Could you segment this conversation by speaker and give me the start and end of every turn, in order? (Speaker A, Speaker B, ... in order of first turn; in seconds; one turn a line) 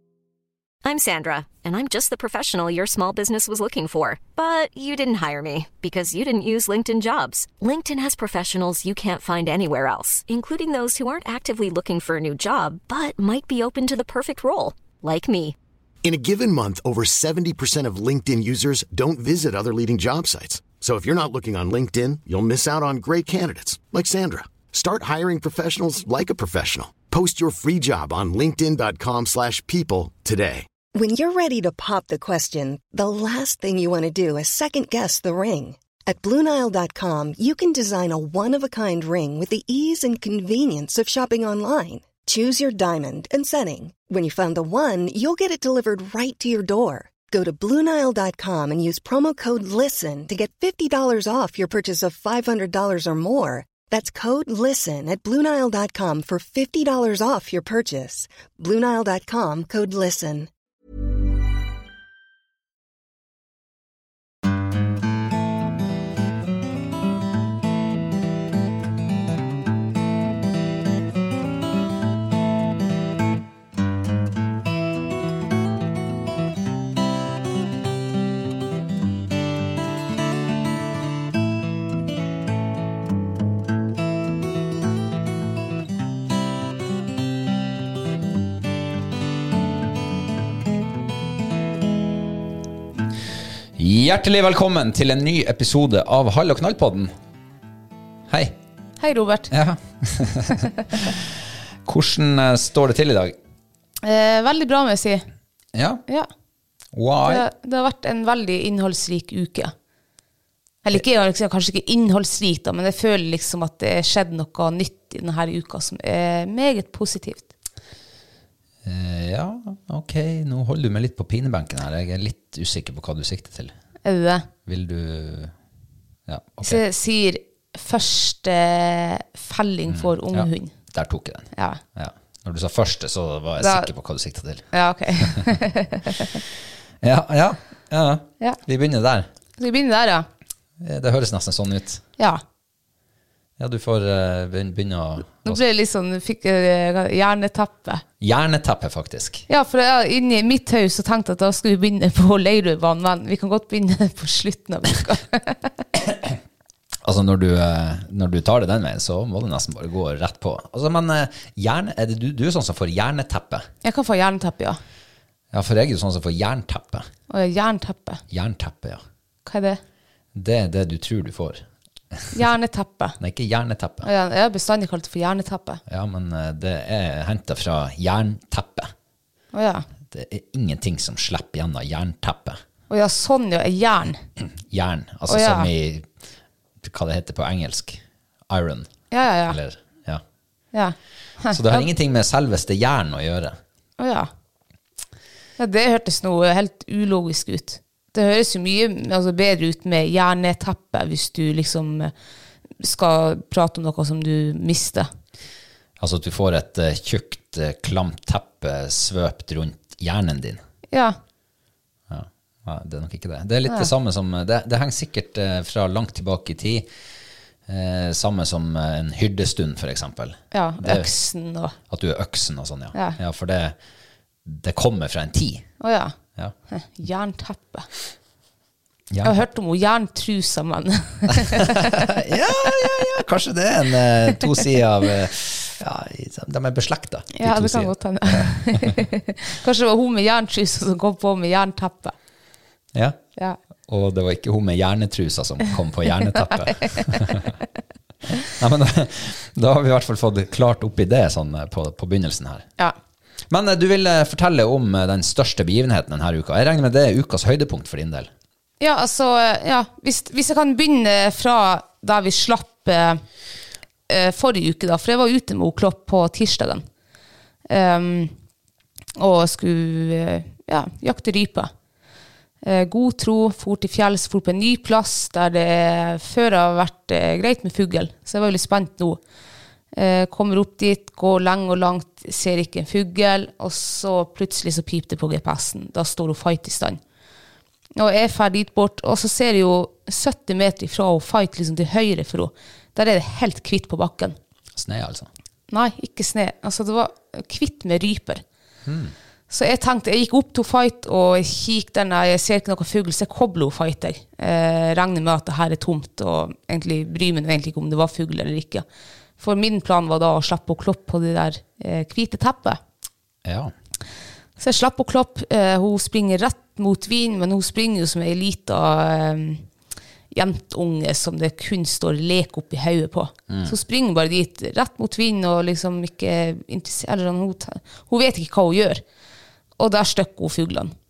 Speaker A: 0.8-15.6
Speaker B: 16.0-30.7
Speaker C: 30.9-60.5
Speaker D: 93.8-97.1
Speaker D: 98.3-98.5
Speaker E: 99.0-99.5
Speaker D: 99.5-103.4
Speaker E: 104.0-105.2
Speaker D: 105.7-106.0
Speaker D: 106.9-107.5
Speaker E: 107.2-109.7
Speaker E: 110.8-117.5
Speaker D: 118.8-123.7
Speaker E: 124.0-124.5
Speaker D: 124.7-125.5
Speaker D: 126.3-126.8
Speaker E: 126.6-130.7
Speaker D: 129.9-134.7
Speaker E: 131.5-131.8
Speaker E: 133.6-133.9
Speaker E: 134.7-136.4
Speaker D: 135.2-135.6
Speaker D: 137.0-139.3
Speaker E: 139.6-140.3
Speaker D: 140.8-142.0
Speaker D: 143.6-145.6
Speaker E: 145.4-148.0
Speaker D: 148.2-149.5
Speaker E: 149.5-155.8
Speaker D: 156.1-156.4
Speaker D: 157.0-163.7
Speaker E: 163.8-164.8
Speaker D: 165.5-167.1
Speaker E: 167.3-168.2
Speaker D: 168.3-169.0
Speaker E: 169.5-169.8
Speaker D: 170.3-171.6
Speaker E: 172.3-173.2
Speaker D: 173.2-174.1
Speaker E: 174.0-175.8
Speaker D: 175.9-178.9
Speaker E: 179.5-179.9
Speaker D: 180.1-182.6
Speaker E: 182.9-184.2
Speaker D: 184.4-186.1
Speaker E: 185.3-185.7
Speaker D: 186.8-188.9
Speaker E: 189.1-189.6
Speaker D: 189.4-190.2
Speaker E: 190.7-191.9
Speaker D: 191.5-193.6
Speaker E: 194.0-194.3
Speaker E: 195.6-202.1
Speaker E: 202.8-205.1
Speaker D: 206.0-210.6
Speaker E: 210.9-211.2
Speaker D: 212.1-216.9
Speaker D: 217.7-221.1
Speaker E: 220.5-221.8
Speaker D: 221.9-223.8
Speaker D: 224.4-225.7
Speaker E: 225.8-226.2
Speaker E: 226.7-227.9
Speaker D: 229.1-229.4
Speaker E: 229.2-232.1
Speaker D: 231.3-239.0
Speaker E: 237.3-242.2
Speaker D: 242.9-243.2
Speaker D: 243.9-247.5
Speaker D: 248.5-252.7
Speaker D: 253.5-258.3
Speaker E: 258.8-263.2
Speaker E: 264.1-266.8
Speaker E: 267.7-268.3
Speaker E: 269.2-271.7
Speaker E: 272.6-279.2
Speaker E: 279.9-287.0
Speaker E: 288.0-294.4
Speaker D: 294.8-295.3
Speaker E: 295.7-298.4
Speaker D: 298.9-299.1
Speaker E: 299.5-308.8
Speaker E: 309.4-312.8
Speaker D: 313.4-313.7
Speaker E: 314.6-319.7
Speaker E: 320.3-329.0
Speaker E: 329.8-330.9